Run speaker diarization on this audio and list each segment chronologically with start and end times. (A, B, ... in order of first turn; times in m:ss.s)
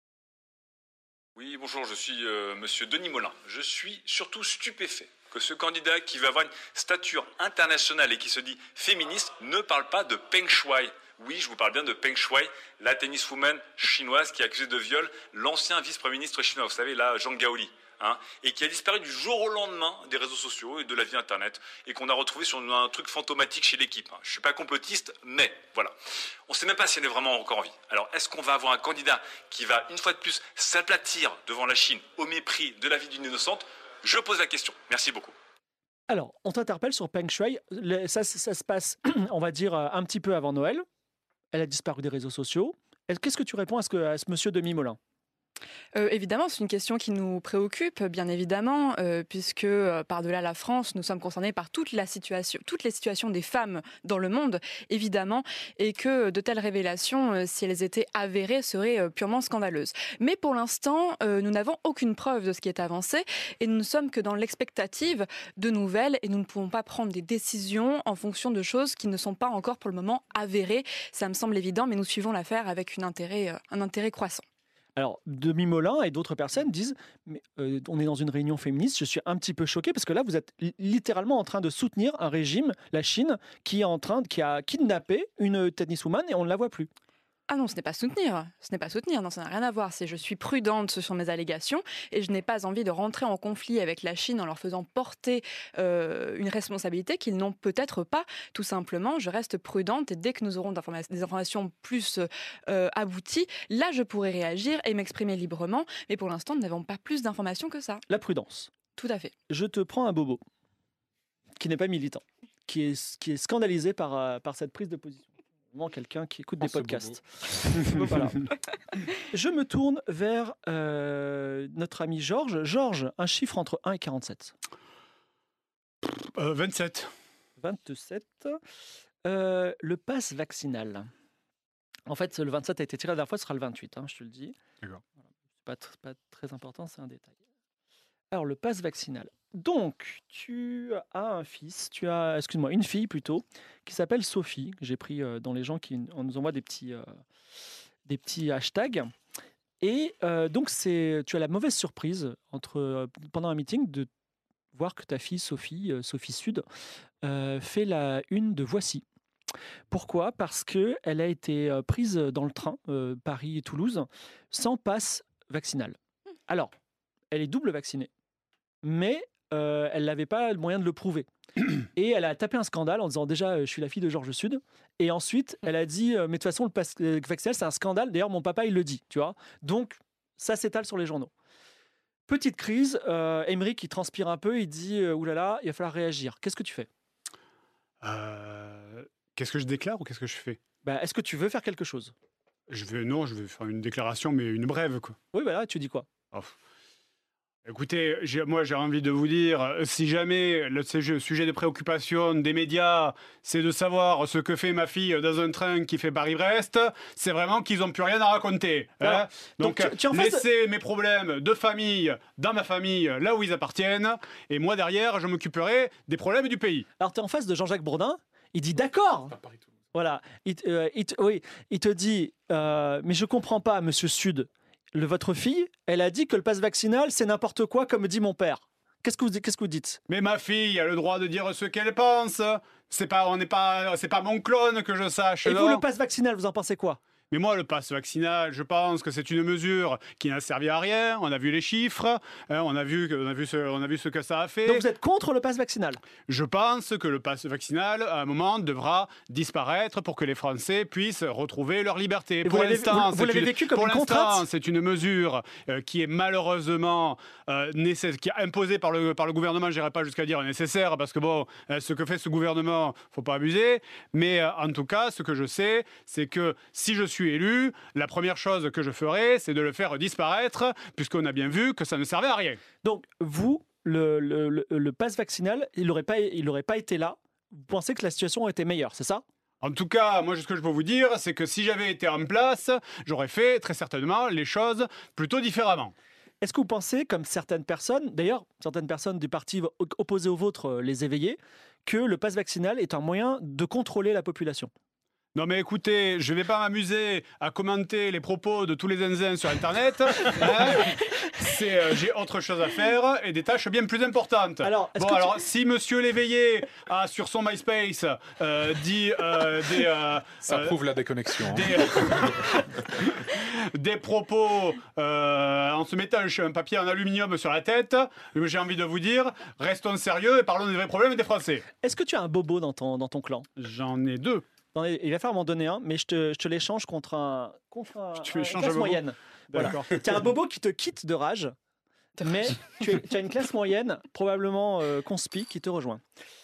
0:01.4-0:25.9 A
0:26.5-0:35.3 A
0:36.1-0:40.8 B
0:41.5-0:45.0 B
0:45.9-1:14.4 C
1:15.0-1:26.9 B
1:27.5-1:48.0 C
1:48.1-1:48.7 B
1:48.9-1:49.3 C
1:49.5-1:50.4 B
1:51.6-1:58.5 B
1:56.6-1:57.2 D
1:59.3-2:04.5 B
2:06.0-2:07.1 E
2:07.6-2:08.6 B
2:09.2-2:11.1 B
2:12.1-2:14.6 B
2:15.6-2:17.3 B
2:18.3-2:27.2 B
2:28.0-2:29.1 B
2:29.8-2:34.1 B
2:34.7-2:36.6 B
2:37.2-2:39.0 B
2:39.9-2:46.0 B
2:47.3-2:48.1 B
2:48.8-2:51.3 B
2:51.8-3:01.3 B
3:02.3-3:06.9 B
3:08.0-3:10.6 E
3:10.8-3:12.1 B
3:12.7-3:15.2 E
3:15.3-3:16.1 B
3:17.6-3:36.9 E
3:29.0-3:30.4 B
3:37.0-3:39.3 B
3:39.3-3:39.7 D
3:39.9-3:50.0 B
3:50.1-3:55.8 E
3:55.4-3:57.0 B
3:57.3-4:04.8 E
4:04.6-4:06.0 B
4:06.3-4:32.6 E
4:12.4-4:14.4 B
4:32.8-4:39.2 B
4:39.6-4:45.9 E
4:46.4-4:54.7 B
4:55.3-5:10.8 E
5:04.6-5:05.4 B
5:10.5-5:12.2 D
5:11.4-5:12.6 E
5:13.3-5:21.6 E
5:21.8-5:23.5 B
5:23.6-5:24.4 E
5:24.7-5:31.5 B
5:28.2-5:30.0 E
5:32.2-5:36.0 B